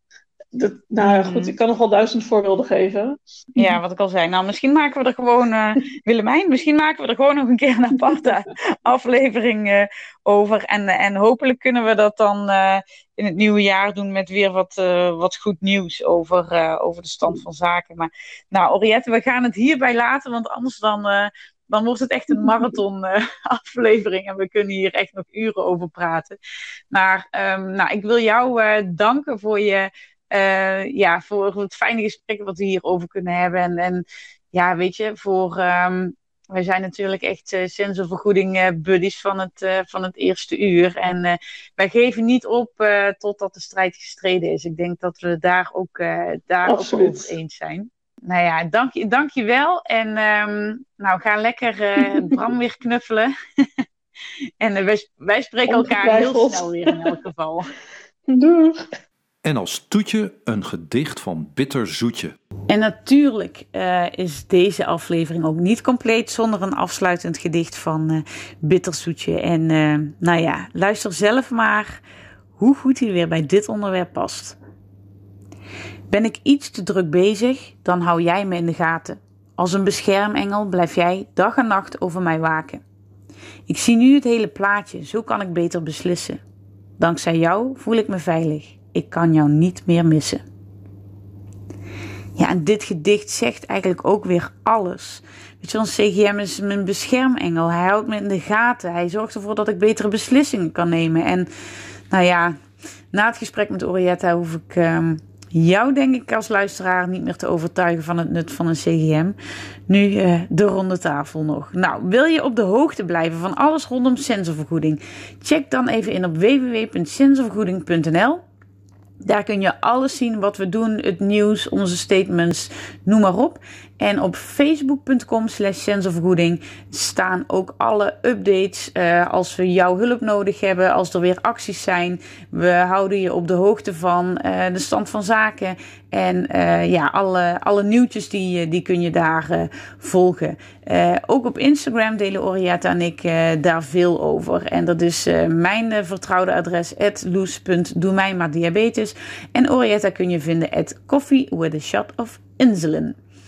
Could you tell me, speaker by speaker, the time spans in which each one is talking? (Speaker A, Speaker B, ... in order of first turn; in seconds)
Speaker A: 0.5-3.8, 46.6-47.3, 55.7-57.0, 58.3-58.9
Speaker B: 1.0-1.5, 3.6-26.4, 26.9-53.8, 54.6-57.7, 62.7-72.0, 72.6-74.6, 76.1-82.8, 83.7-86.4, 87.0-90.4, 92.4-101.5, 102.1-102.5, 103.1-109.3, 109.9-118.4, 119.2-153.2
Speaker C: 59.4-62.3